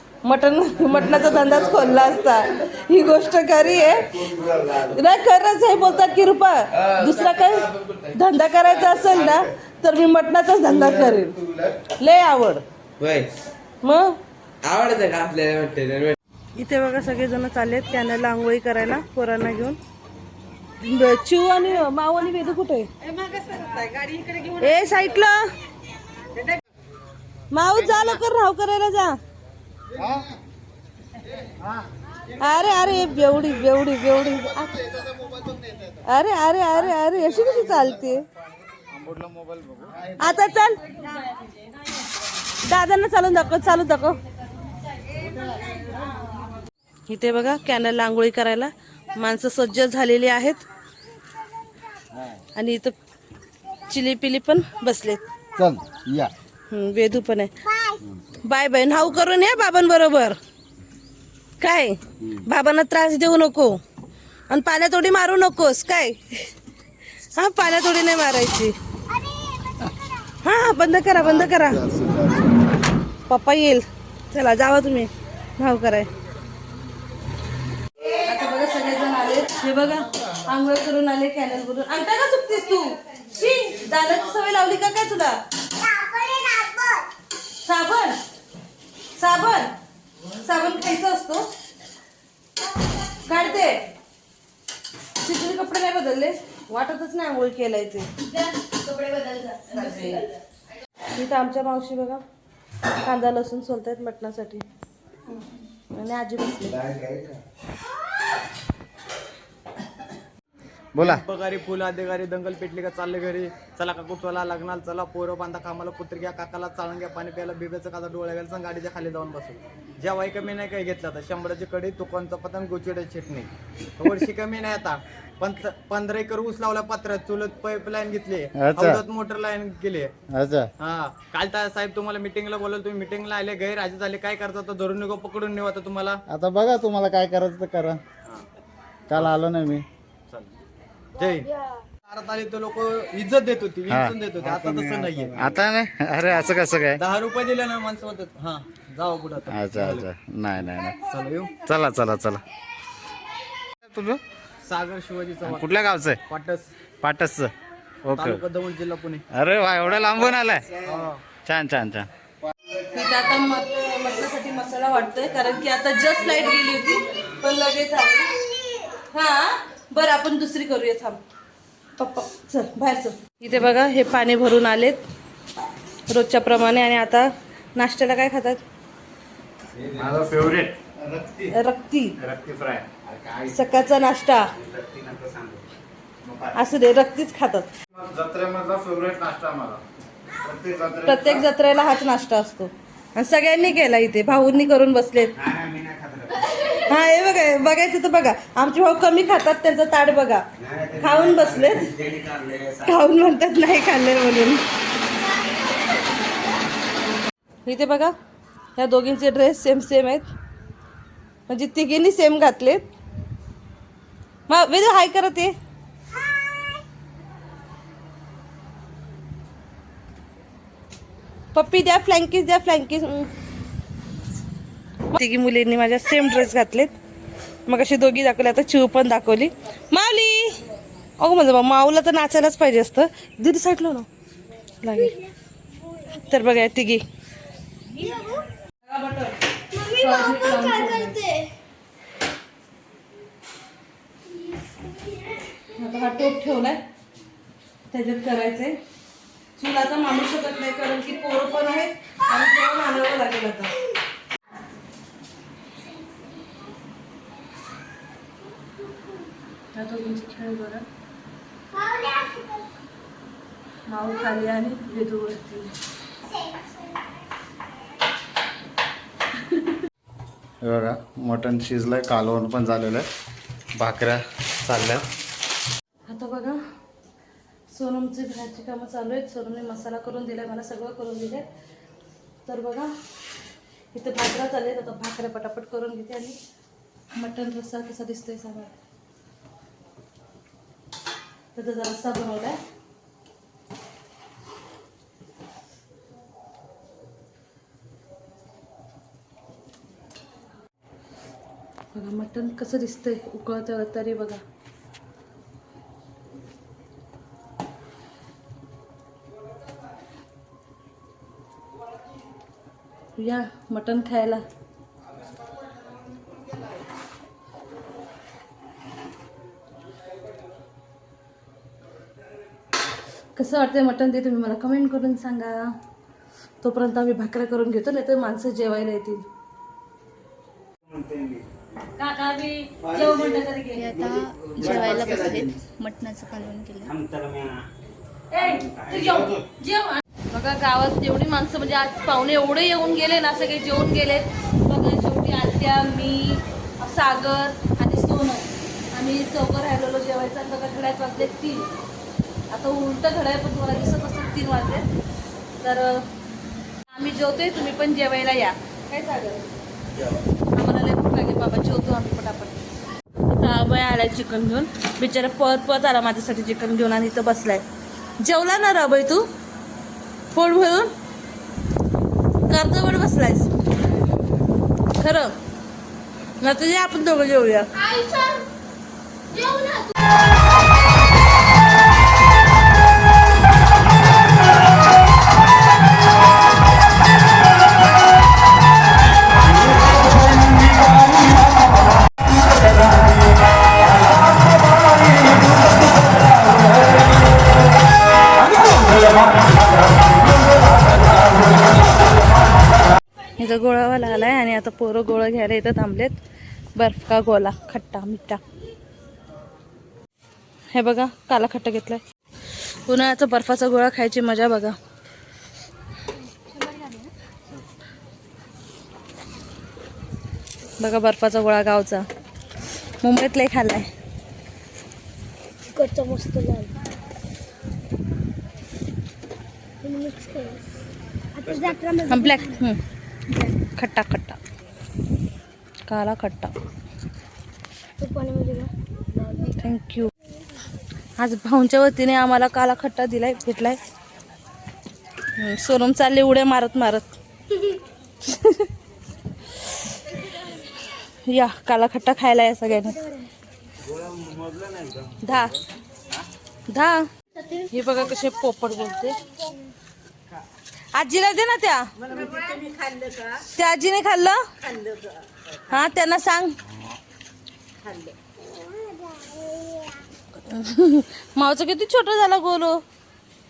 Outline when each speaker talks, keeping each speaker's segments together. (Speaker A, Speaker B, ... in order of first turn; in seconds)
Speaker A: 0.3-4.1, 4.9-11.3, 12.0-12.6, 13.8-14.2, 16.6-19.8, 20.8-22.9, 24.6-25.4, 27.5-29.2, 32.4-34.8, 36.1-38.2, 40.2-40.8, 42.6-44.2, 47.1-50.6, 52.6-52.9, 53.9-55.2, 56.7-57.5, 58.5-60.4, 61.6-63.8, 64.5-66.5, 67.4-68.7, 70.4-71.8, 73.3-76.1, 78.2-85.4, 87.7-88.2, 89.2-89.7, 90.4-91.5, 93.3-93.8, 95.2-98.1, 99.7-100.2, 101.2-102.2, 103.0-104.7, 105.9-106.8, 162.9-168.3, 169.1-171.2, 172.0-175.1, 176.1-178.6, 181.5-182.1, 183.5-184.5, 186.6-187.7, 191.1-195.3, 196.9-200.4, 201.0-201.9, 202.8-204.6, 207.7-208.1, 208.8-210.3, 211.5-212.9, 214.5-215.5, 221.5-223.3, 225.1-226.9, 227.7-230.6, 231.2-234.1, 234.8-235.1, 236.3-237.0, 238.8-239.3, 240.0-241.2, 245.8-246.8, 247.9-248.8, 249.6-253.7, 259.8-260.9, 263.9-265.8, 276.1-276.6, 277.7-281.5, 282.5-282.9, 283.9-286.4, 287.2-288.8, 291.6-292.6, 301.9-304.4, 313.2-314.4, 323.4-325.7, 326.6-329.2, 332.0-333.9, 338.3-351.7, 352.5-354.9, 355.6-356.0, 356.9-359.5, 360.6-362.6, 363.3-367.6, 368.2-369.3, 370.3-370.9, 372.5-373.5, 375.0-375.3, 376.4-377.7, 403.4-406.2, 406.8-408.4, 410.7-412.0, 412.9-414.8, 420.8-422.1, 423.0-423.9, 432.1-432.8, 433.8-434.4, 435.9-436.5, 439.6-440.1, 441.2-443.8, 445.4-447.2, 448.2-448.7, 451.3-453.0, 455.2-455.5, 456.7-457.1, 457.7-459.2, 460.9-461.9, 463.6-464.4, 465.7-466.5, 470.5-472.8
Speaker B: 0.9-2.5, 3.9-5.0, 10.7-11.8, 29.9-30.3, 31.4-31.8, 34.9-36.0, 38.9-40.4, 55.6-56.3, 71.2-72.5, 106.7-107.4, 111.0-111.2, 128.6-129.0, 130.3-130.7, 136.3-138.0, 139.1-139.8, 143.9-144.2, 145.4-147.0, 149.5-151.0, 151.7-152.4, 153.8-154.2, 155.4-156.2, 157.0-157.5, 158.1-158.4, 159.3-160.8, 161.4-162.1, 179.9-181.5, 182.2-182.9, 186.2-186.6, 187.9-189.8, 190.4-191.5, 270.6-273.1, 273.8-275.1
Speaker C: 13.0-13.3, 14.6-16.1, 144.4-145.6, 179.8-180.2, 183.1-183.6, 184.5-185.7, 195.4-196.5, 200.6-203.0, 330.8-331.4, 332.8-333.3, 333.9-335.6, 336.9-337.6, 338.4-339.4, 453.8-455.2
Speaker D: 57.7-58.0, 85.8-87.1, 261.7-262.7, 266.3-267.1, 425.8-426.7, 429.9-430.5, 431.4-432.3, 468.4-470.0
Speaker E: 98.3-100.2, 239.7-241.3, 333.8-336.9, 377.8-378.4, 379.3-379.9, 416.4-417.1, 438.0-438.7
Speaker F: 111.0-130.1, 130.8-136.2, 141.2-141.5, 142.1-145.5, 147.0-150.1, 151.1-151.5, 154.7-155.7, 156.3-156.7, 158.2-159.2, 160.8-161.2